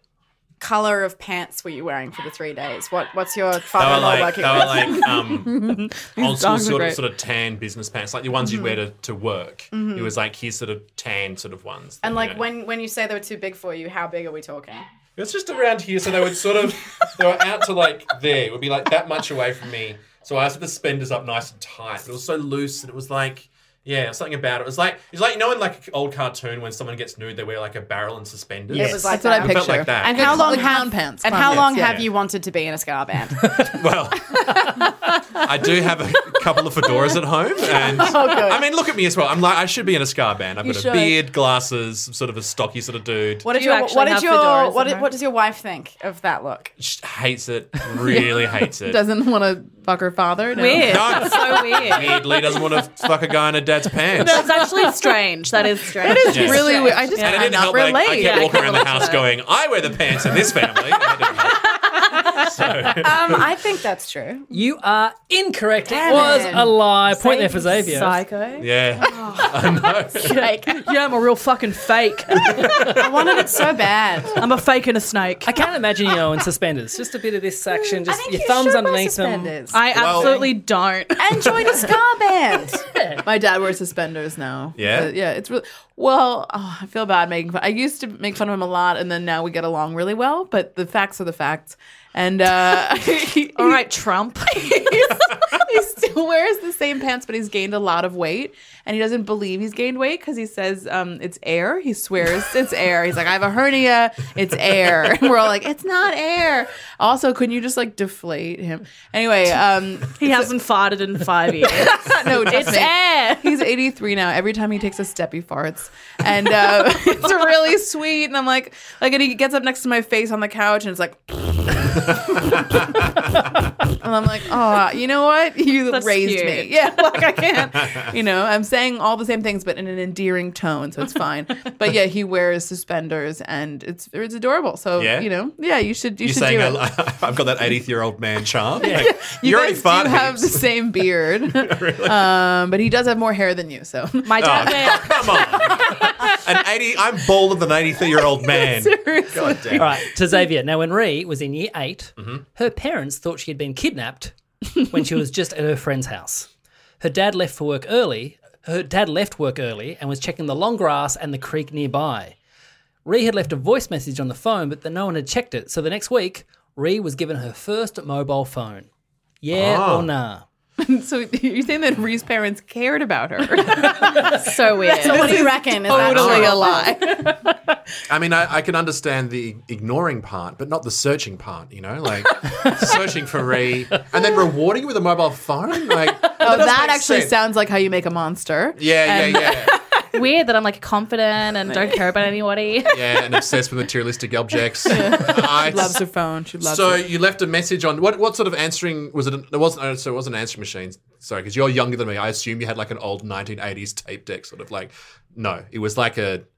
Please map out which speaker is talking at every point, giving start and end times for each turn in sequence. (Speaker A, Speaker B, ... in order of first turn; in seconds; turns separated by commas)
Speaker A: 0.6-5.2, Speaker B: 3.7-12.5, Speaker C: 4.8-7.0, Speaker A: 8.4-8.7, Speaker A: 9.7-10.2, Speaker A: 12.0-14.8, Speaker B: 15.2-30.6, Speaker D: 28.7-29.1, Speaker A: 28.7-34.9, Speaker C: 28.9-32.1, Speaker B: 31.6-32.0, Speaker B: 33.7-34.5, Speaker B: 35.4-43.5, Speaker A: 35.6-35.9, Speaker A: 36.8-38.7, Speaker C: 40.6-41.2, Speaker A: 43.4-46.7, Speaker E: 43.5-45.1, Speaker B: 46.8-49.0, Speaker C: 48.0-51.6, Speaker E: 50.5-52.3, Speaker B: 50.8-54.6, Speaker E: 54.2-59.2, Speaker C: 56.0-58.7, Speaker A: 56.1-57.0, Speaker B: 56.3-63.5, Speaker A: 62.9-64.5, Speaker D: 64.5-68.2, Speaker A: 65.9-68.0, Speaker E: 67.7-68.7, Speaker B: 68.6-70.4, Speaker A: 69.0-70.9, Speaker E: 70.2-72.8, Speaker B: 72.5-73.0, Speaker A: 72.5-74.4, Speaker E: 74.3-75.5, Speaker D: 75.4-79.6, Speaker A: 78.0-80.5, Speaker E: 79.7-81.8, Speaker B: 79.9-80.5, Speaker A: 81.2-82.8, Speaker D: 82.9-83.2, Speaker C: 83.2-93.8, Speaker B: 84.7-85.1, Speaker E: 93.5-95.2, Speaker C: 94.6-110.5, Speaker E: 110.2-113.6, Speaker C: 111.7-123.0, Speaker B: 122.2-122.6, Speaker C: 123.8-136.9, Speaker E: 125.9-126.9, Speaker B: 127.9-128.1, Speaker B: 135.0-135.3, Speaker B: 136.2-140.9, Speaker C: 138.8-146.4, Speaker B: 141.5-142.3, Speaker E: 144.2-146.1, Speaker B: 144.4-150.0, Speaker C: 148.1-150.1, Speaker D: 149.7-156.5, Speaker B: 152.2-152.4, Speaker D: 157.0-162.3, Speaker D: 163.0-168.9, Speaker D: 169.4-170.4, Speaker B: 169.5-170.1, Speaker C: 170.8-177.5, Speaker E: 173.7-175.5, Speaker A: 174.9-176.9, Speaker B: 176.0-176.7, Speaker B: 178.1-187.3, Speaker C: 186.4-189.9, Speaker B: 188.8-189.8, Speaker E: 190.1-193.0, Speaker C: 191.7-192.0, Speaker B: 192.9-206.4, Speaker C: 194.8-197.1